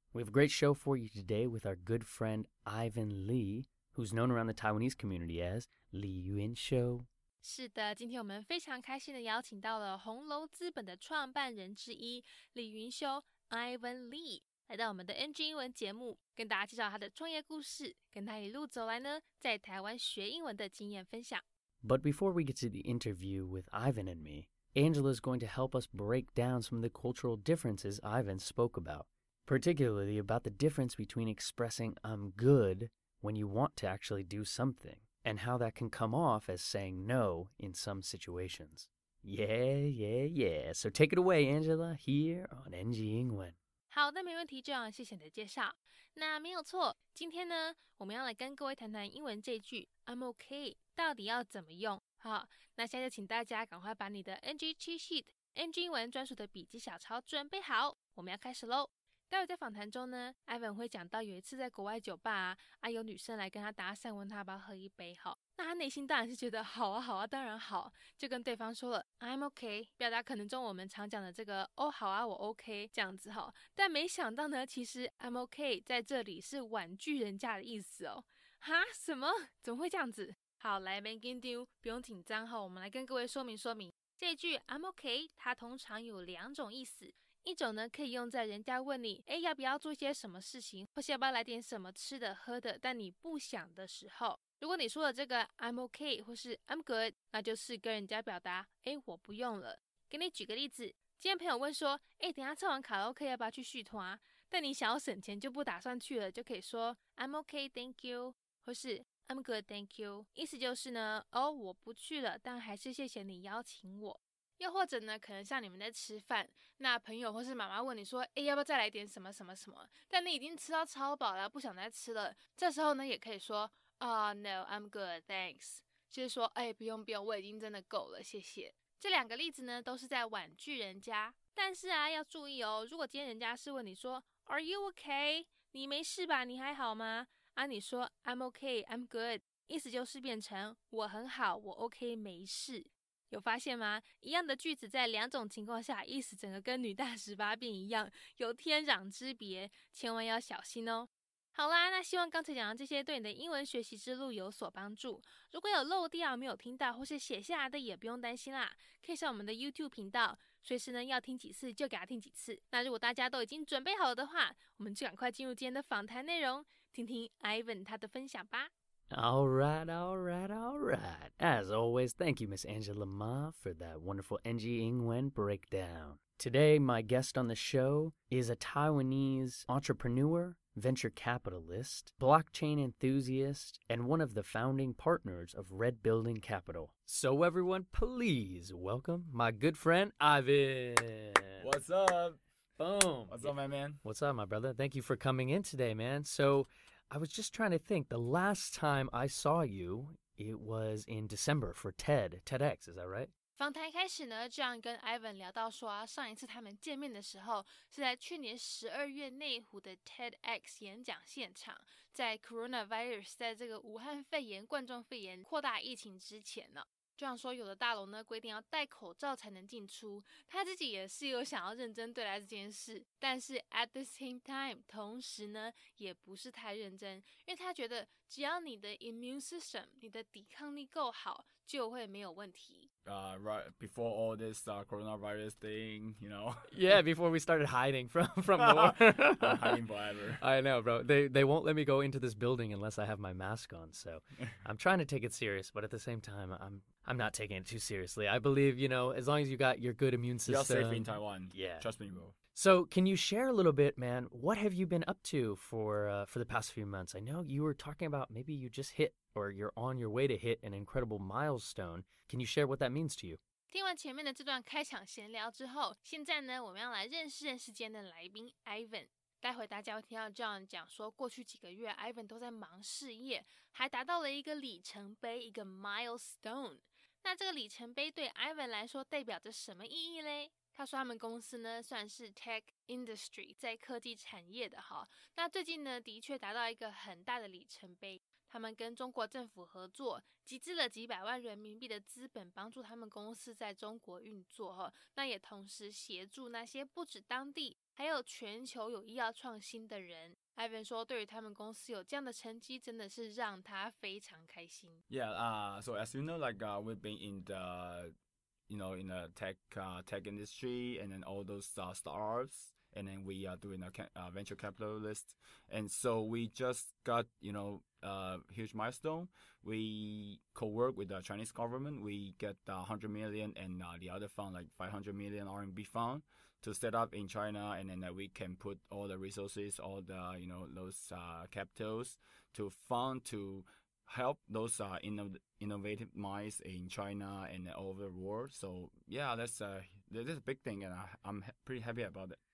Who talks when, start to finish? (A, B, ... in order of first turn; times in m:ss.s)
0:00.1-0:07.1 A
0:07.4-0:21.4 B
0:21.8-0:43.6 A
0:43.9-2:48.7 B
2:49.1-3:11.7 A
3:11.6-3:12.4 C
3:12.8-3:23.3 A
3:13.3-3:14.0 C
3:23.6-3:52.9 B
3:53.0-3:56.7 C
3:56.7-3:59.8 A
3:58.6-4:00.4 C
4:00.4-4:11.9 A
4:10.5-4:12.4 C
4:12.5-4:23.4 A
4:23.7-5:05.0 B
5:05.1-5:08.1 C
5:08.7-5:42.4 C